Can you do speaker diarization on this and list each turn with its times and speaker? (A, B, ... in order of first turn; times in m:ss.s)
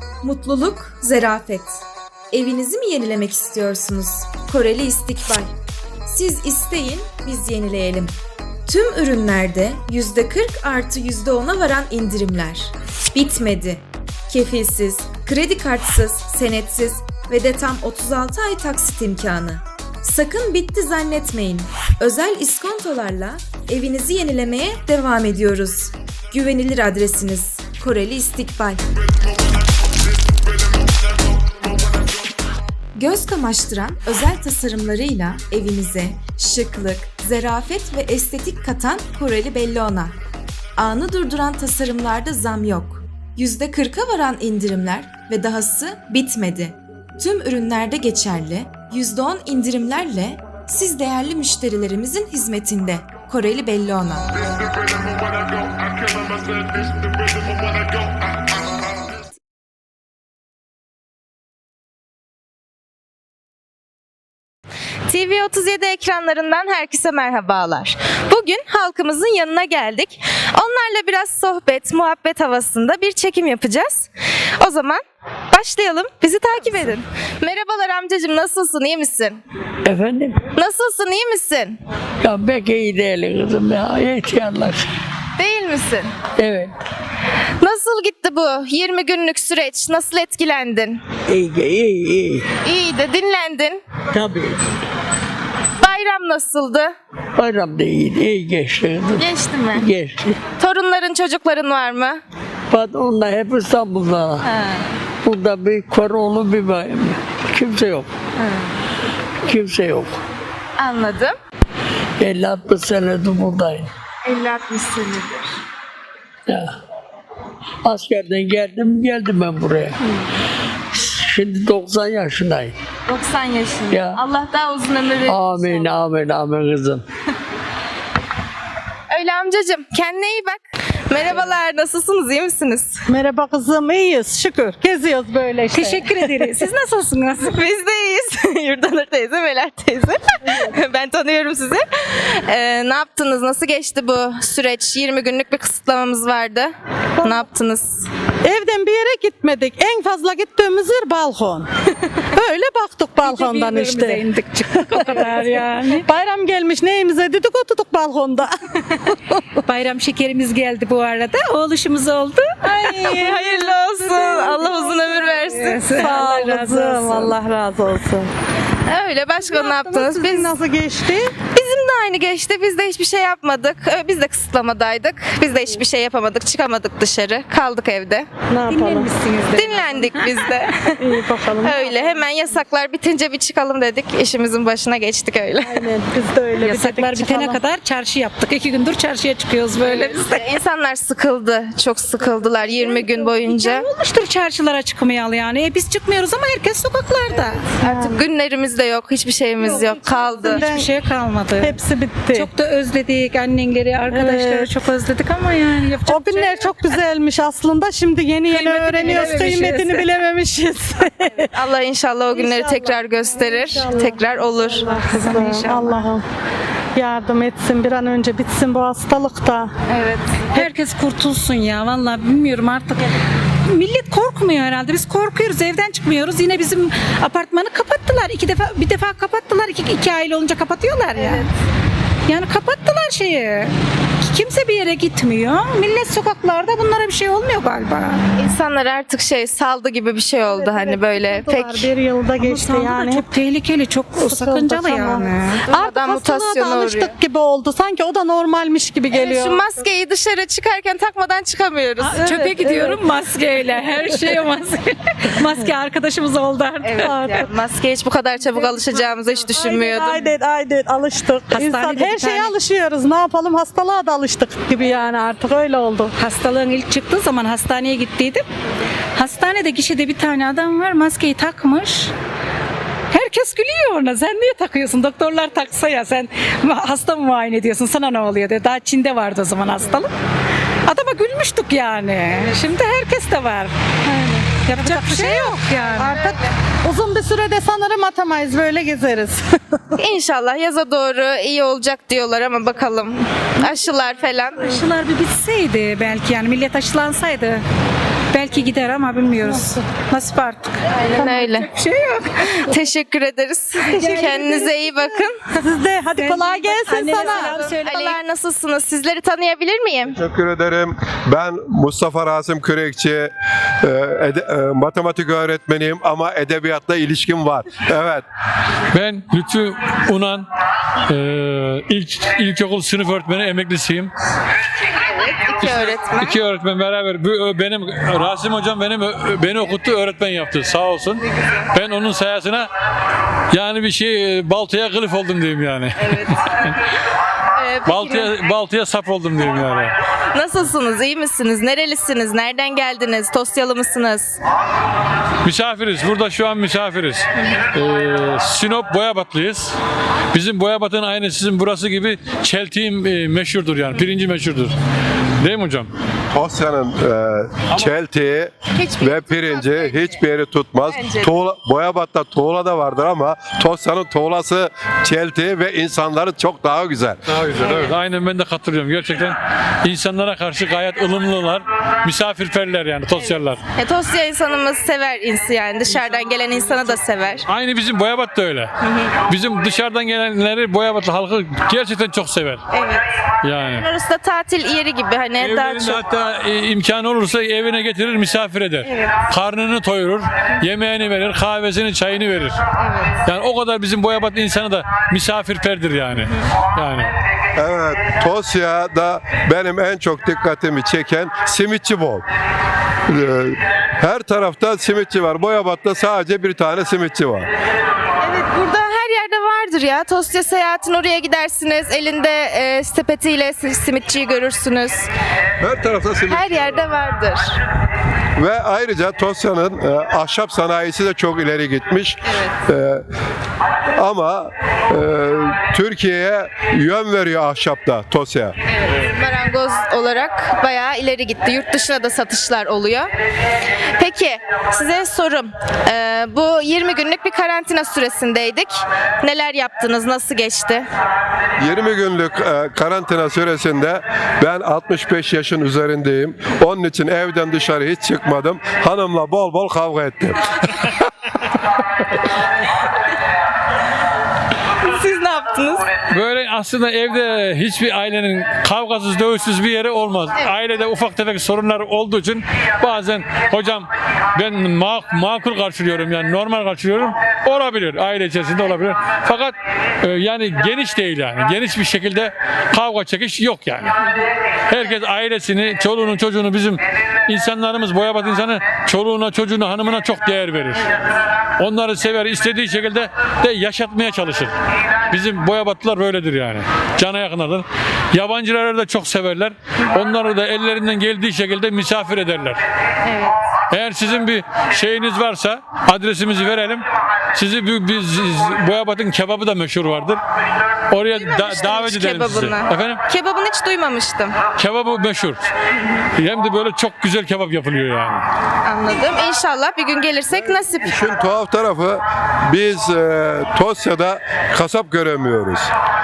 0:00.3-0:01.8 A
0:00.3-0:01.0 B
0:02.3-0:05.5 A
0:03.9-0:04.4 B
0:06.1-0:08.0 A
0:06.4-0:07.3 B
0:08.7-0:13.7 A
0:08.8-0:11.3 B
0:13.6-0:13.8 B
0:14.3-0:19.2 A
0:14.8-0:19.6 B
0:20.0-0:23.2 A
0:20.3-0:20.6 B
0:21.4-0:28.8 B
0:23.7-0:24.5 A
0:27.1-0:28.1 A
0:33.0-0:40.1 A
0:33.3-0:33.8 B
0:34.9-0:35.6 B
0:37.1-0:38.1 B
0:38.9-0:39.9 B
0:40.8-0:46.5 A
0:42.0-0:42.9 B
0:44.0-0:46.7 B
0:47.2-0:48.5 A
0:47.3-0:54.2 B
0:49.0-0:49.9 A
0:50.6-0:51.5 A
0:56.2-0:57.1 C
1:05.1-1:15.0 A
1:15.5-1:19.4 A
1:19.8-1:20.4 D
1:20.6-1:21.8 A
1:22.2-1:24.9 D
1:25.4-1:26.1 A
1:26.4-1:26.7 D
1:27.6-1:31.0 A
1:31.3-1:32.5 D
1:32.6-1:33.8 A
1:34.1-1:34.6 D
1:35.8-1:36.9 A
1:37.4-1:40.4 D
1:39.2-1:39.8 A
1:40.6-1:42.2 A
1:42.7-1:44.5 D
1:44.4-1:44.8 A
1:45.2-1:48.1 D
1:48.4-1:48.7 A
1:49.4-1:50.2 D
1:50.8-1:51.3 A
1:52.2-1:53.9 D
1:54.2-1:55.5 A
1:56.5-1:56.8 D
1:57.8-2:00.0 D
2:00.9-2:02.8 D
2:03.1-2:05.9 A
2:03.9-2:04.2 D
2:05.2-2:07.0 D
2:09.1-2:13.0 A
2:13.1-2:16.7 E
2:15.7-2:17.6 F
2:17.4-2:26.7 A
2:27.2-2:27.4 E
2:27.2-2:28.1 A
2:28.4-2:31.7 E
2:32.4-2:39.1 E
2:33.2-2:36.1 F
2:39.6-2:42.5 F
2:42.7-2:45.8 A
2:42.7-2:43.4 E
2:44.1-2:44.8 E
2:44.6-2:47.4 F
2:46.0-2:48.3 E
2:48.9-2:50.6 A
2:49.4-2:51.3 E
2:51.5-2:58.3 A
2:58.5-2:59.1 E
2:58.7-3:00.3 F
2:59.5-3:01.0 A
3:01.0-3:02.3 E
3:01.6-3:05.9 A
3:05.6-3:07.6 E
3:06.6-3:10.5 F
3:09.8-3:13.9 A
3:12.5-3:13.3 E
3:13.4-3:17.7 F
3:17.8-3:18.2 E
3:17.8-3:20.6 A
3:19.6-3:20.9 E
3:19.9-3:21.8 F
3:21.6-3:22.5 E
3:22.3-3:27.0 F
3:24.1-3:24.7 E
3:26.0-3:31.5 E
3:28.4-3:30.1 F
3:31.5-3:35.0 A
3:32.3-3:36.2 E
3:35.1-3:36.1 F
3:37.0-3:39.7 E
3:39.9-3:40.5 A
3:40.5-3:43.1 F
3:43.7-3:51.5 F
3:52.3-3:53.7 F
3:54.2-3:58.2 F
3:58.4-4:01.9 A
4:00.4-4:03.3 E
4:02.4-4:05.6 F
4:04.2-4:09.8 E
4:05.5-4:07.1 A
4:09.1-4:12.8 A
4:12.0-4:17.5 F
4:16.8-4:20.3 A
4:18.5-4:26.1 E
4:21.5-4:22.6 F
4:26.2-4:28.4 F
4:29.2-4:32.1 F
4:33.1-4:40.1 F
4:40.9-4:43.7 F
4:44.1-4:49.7 E
4:44.5-4:46.3 F
4:50.0-4:54.8 A
4:54.6-4:57.6 F
4:58.3-5:02.3 F
4:59.5-4:59.8 E
5:01.0-5:01.7 A
5:02.4-5:05.4 A
5:03.9-5:07.6 E
5:06.1-5:08.2 F
5:07.1-5:10.2 A
5:10.1-5:13.3 C
5:13.8-5:18.2 C
5:18.9-5:20.5 G
5:21.1-5:24.1 G
5:25.0-5:26.4 A
5:25.6-5:32.7 G
5:33.5-5:36.8 G
5:37.6-5:38.3 A
5:37.9-5:40.0 G
5:40.3-5:44.4 A
5:45.4-5:49.8 G
5:50.3-5:54.8 G
5:55.4-5:55.9 G
5:56.3-6:07.2 C
5:58.7-6:00.2 A
6:00.9-6:01.4 A
6:07.3-6:13.6 G
6:13.8-6:17.5 A
6:17.5-6:18.7 G
6:18.8-6:19.1 A
6:19.3-6:22.6 G
6:22.7-6:23.0 A
6:23.4-6:23.9 G
6:23.7-6:26.0 A
6:25.4-6:32.6 G
6:32.8-6:33.2 A
6:33.3-6:37.1 G
6:37.6-6:42.2 C
6:43.1-6:47.5 C
6:48.2-6:55.1 A
6:55.6-6:56.6 C
6:56.3-6:57.5 A
6:58.4-7:03.0 C
7:02.3-7:02.6 A
7:04.0-7:08.6 C
7:08.7-7:13.1 A
7:14.0-7:20.9 A
7:21.6-7:31.1 C
7:34.9-7:35.8 A
7:36.1-7:53.9 G
7:54.7-8:00.9 G
8:01.6-8:04.5 G
8:05.1-8:12.6 G
8:13.0-8:13.3 A
8:13.7-8:20.2 G
8:20.9-8:23.0 G
8:21.1-8:24.3 A
8:24.6-8:25.4 G
8:26.2-8:28.3 G
8:28.6-8:30.9 A
8:30.5-8:35.7 C